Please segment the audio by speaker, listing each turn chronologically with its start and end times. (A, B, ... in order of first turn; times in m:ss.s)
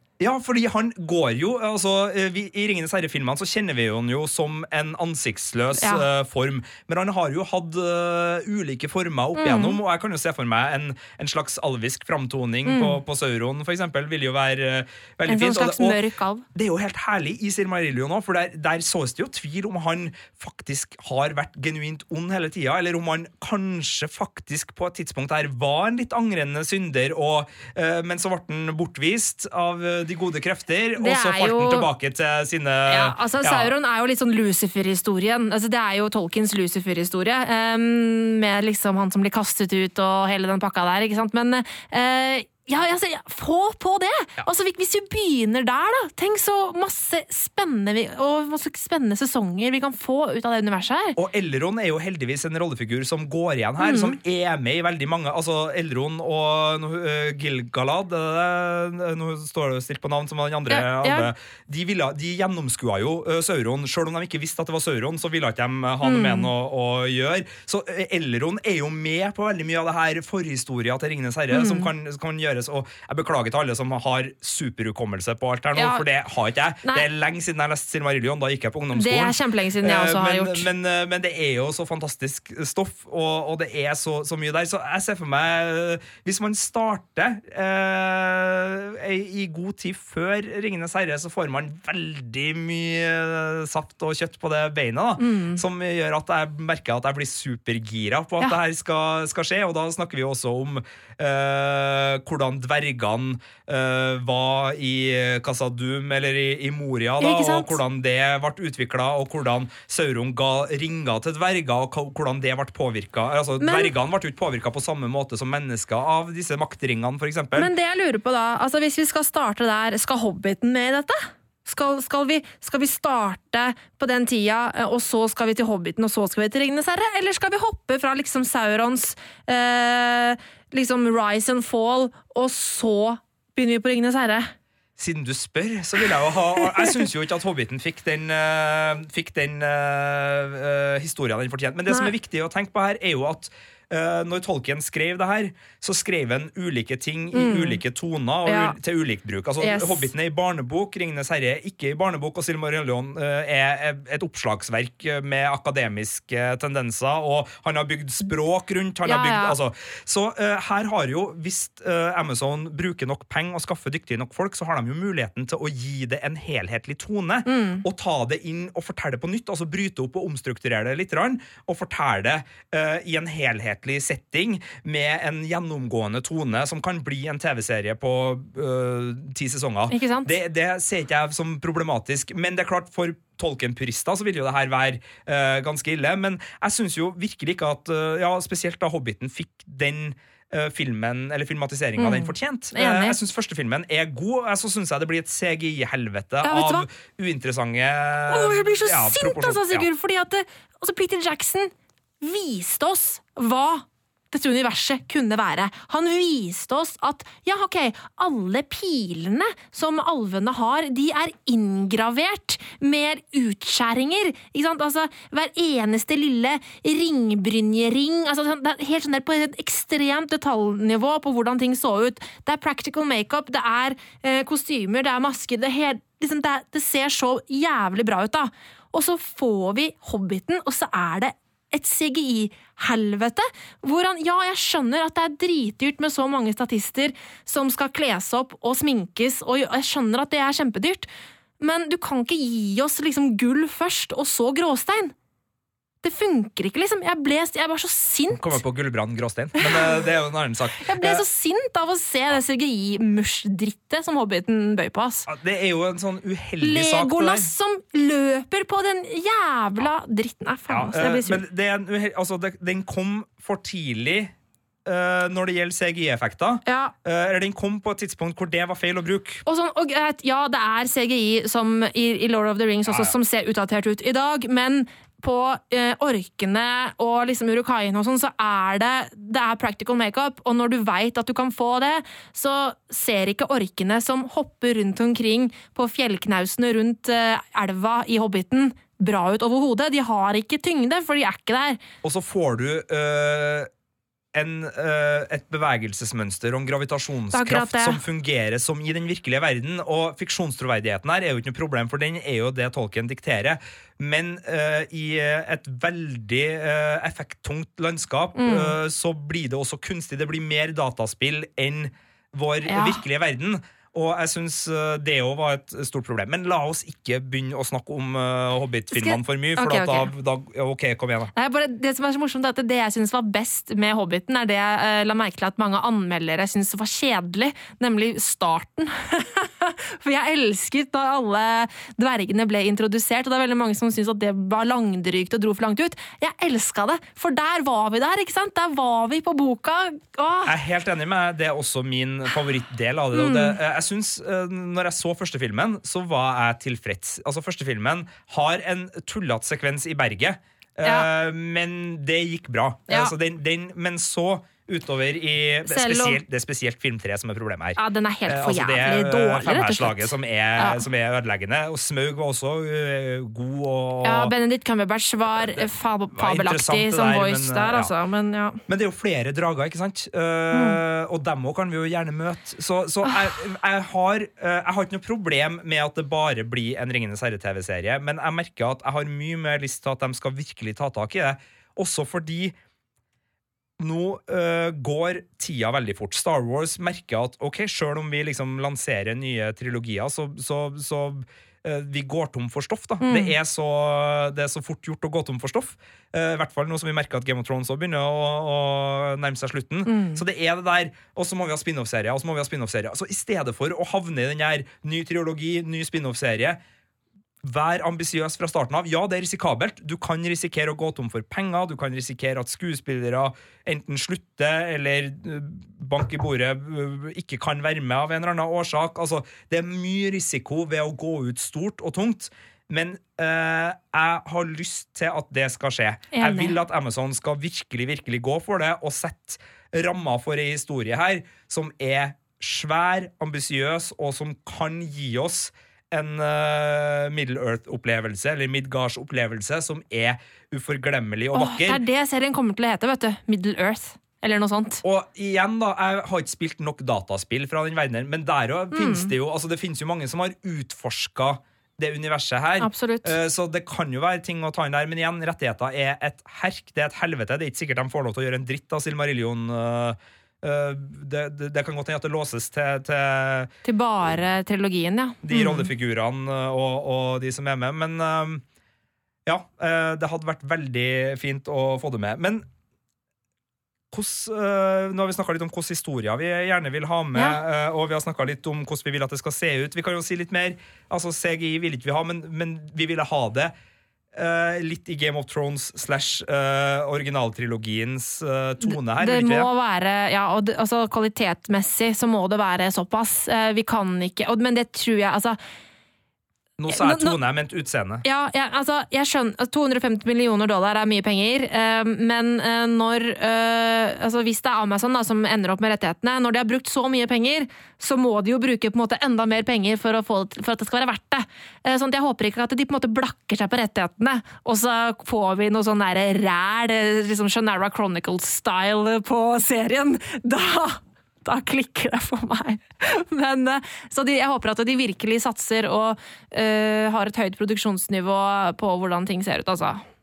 0:00.2-0:16.0 A
0:05.8-0:06.0 B
0:09.4-0:09.8 B
0:12.6-0:13.0 B
0:15.3-0:16.4 B
0:16.5-0:33.7 A
0:31.0-0:31.9 B
0:32.9-0:51.2 B
0:51.2-1:57.7 A
0:53.8-0:54.2 B
1:00.7-1:01.3 B
1:06.0-1:06.5 B
1:11.5-1:11.9 B
1:15.8-1:16.0 B
1:18.9-1:20.7 B
1:35.2-1:35.6 B
1:47.2-1:47.8 B
1:53.6-1:53.9 B
1:57.6-2:14.5 B
2:15.0-3:19.9 A
2:27.3-2:27.8 B
2:28.4-2:28.7 B
2:29.6-2:30.1 B
2:39.0-2:39.5 B
2:47.4-2:47.8 B
2:59.9-3:00.3 B
3:12.0-3:13.2 B
3:16.4-3:16.8 B
3:18.3-4:01.1 B
4:01.6-4:05.1 B
4:06.0-4:08.6 B
4:08.3-4:11.2 A
4:09.6-4:10.0 B
4:10.8-4:15.3 B
4:15.2-4:17.5 A
4:16.6-4:21.4 B
4:20.7-4:24.3 A
4:24.8-4:29.4 A
4:26.6-4:26.9 B
4:29.4-4:51.8 B
4:32.9-4:33.1 A
4:52.0-4:53.7 A
4:54.3-5:21.3 A
4:57.3-4:58.0 B
5:08.4-5:08.7 B
5:12.7-5:13.0 B
5:18.9-5:20.1 B
5:21.3-5:40.6 B
5:40.4-6:04.3 A
5:43.1-5:43.6 B
5:52.9-5:53.1 B
5:55.6-5:56.2 B
5:57.8-6:00.8 B
6:04.0-6:08.6 B
6:05.4-6:07.9 A
6:08.7-6:22.5 A
6:10.5-6:10.8 B
6:23.8-6:46.6 A
6:33.0-6:33.3 B
6:39.8-6:40.2 B
6:47.4-7:21.8 A
7:06.1-7:06.6 B
7:21.3-7:24.8 B
7:24.8-7:43.5 A
7:28.7-7:29.1 B
7:32.6-7:33.1 B
7:43.6-7:45.7 B
7:45.2-7:48.4 A
7:49.2-7:52.5 A
7:53.9-8:03.5 A
7:57.1-7:57.4 B
8:04.1-8:09.5 A
8:08.6-8:15.4 B
8:16.6-8:18.0 A
8:16.7-8:17.2 B
8:18.0-8:49.8 B